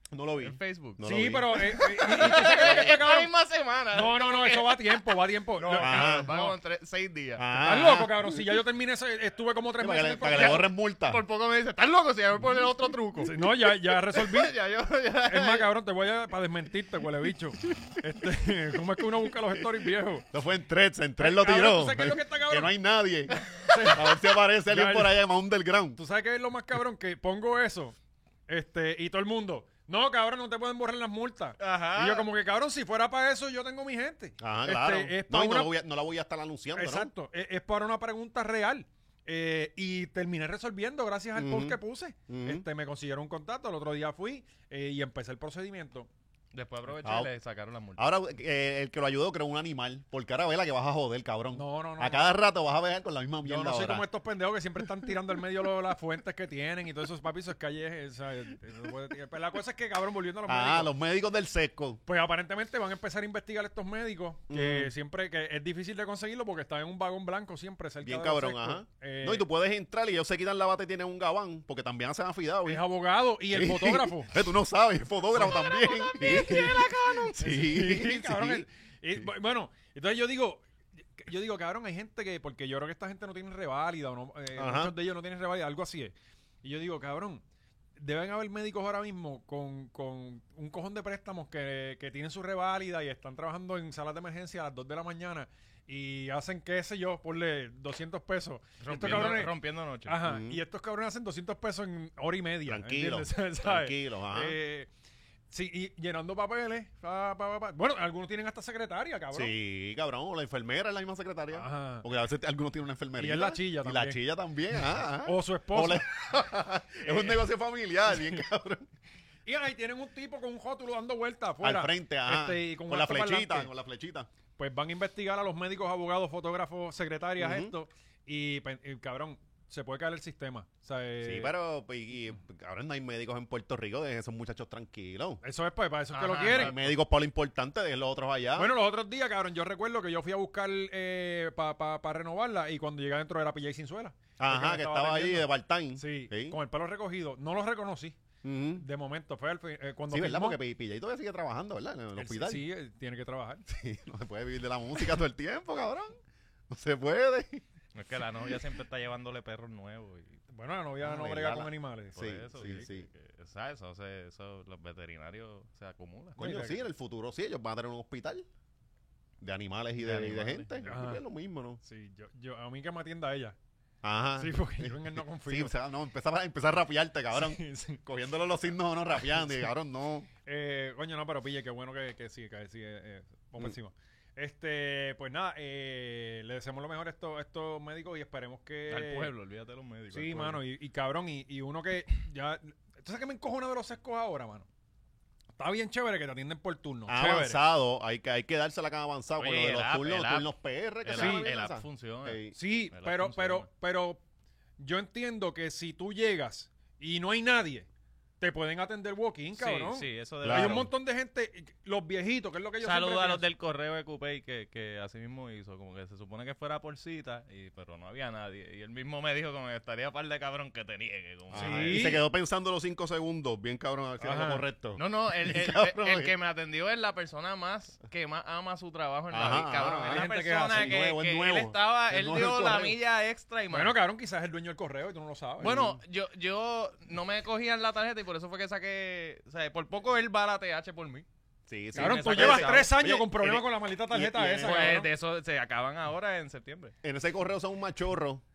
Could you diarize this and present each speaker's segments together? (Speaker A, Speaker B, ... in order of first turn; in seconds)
Speaker A: 0.1-2.5, 5.8-6.3, 7.4-8.4, 9.8-11.2, 20.3-26.0, 34.4-37.1, 41.4-42.6, 47.0-47.3, 48.0-54.1, 60.5-62.0, 64.5-64.9, 68.0-72.8, 73.5-78.7, 84.6-84.9, 99.0-99.4, 100.2-100.6, 102.7-104.6, 109.3-118.9, 121.6-124.3, 127.4-127.7, 131.2-135.4, 136.5-138.8, 144.4-146.6, 148.4-148.8, 150.1-152.7, 153.7-156.2, 156.7-157.7, 161.0-163.1, 166.4-168.5, 169.4-171.8, 174.0-180.3, 197.1-202.6, 210.4-210.9, 221.5-226.3, 229.3-233.0, 235.6-236.0, 241.7-244.9, 247.0-248.4
Speaker B: 0.4-1.0, 1.6-5.1, 5.6-7.5, 10.3-13.3, 13.9-15.7, 31.6-32.3, 46.5-48.1, 75.7-77.3, 98.8-100.2, 136.1-136.8, 157.9-160.4, 162.2-166.4, 170.0-170.9, 188.9-190.6, 199.4-200.5, 201.0-203.7, 209.6-210.9, 212.8-222.1, 225.0-234.0, 235.6-241.3, 241.9-242.9, 244.6-246.9
Speaker C: 1.0-3.3, 3.9-6.5, 7.6-10.7, 13.2-14.5, 15.3-20.3, 21.2-22.7, 23.7-25.3, 25.9-28.0, 28.5-35.7, 36.8-46.1, 51.5-52.3, 53.4-60.9, 62.1-69.5, 72.7-74.3, 75.3-87.4, 88.0-99.5, 100.1-104.9, 105.5-109.5, 111.5-112.1, 113.2-114.2, 115.2-116.1, 117.0-117.5, 119.5-123.7, 124.6-131.5, 135.4-136.8, 138.6-148.2, 148.8-150.6, 152.2-153.7, 160.5-162.8, 166.4-166.8, 170.9-171.2, 171.8-173.6, 174.4-175.7, 177.3-178.0, 180.5-189.3, 190.1-194.7, 195.6-197.6, 201.2-201.5, 202.6-204.2, 204.8-207.9, 208.4-213.5, 221.5-222.2, 224.2-224.7, 229.8-231.0, 233.7-235.8, 242.0-245.1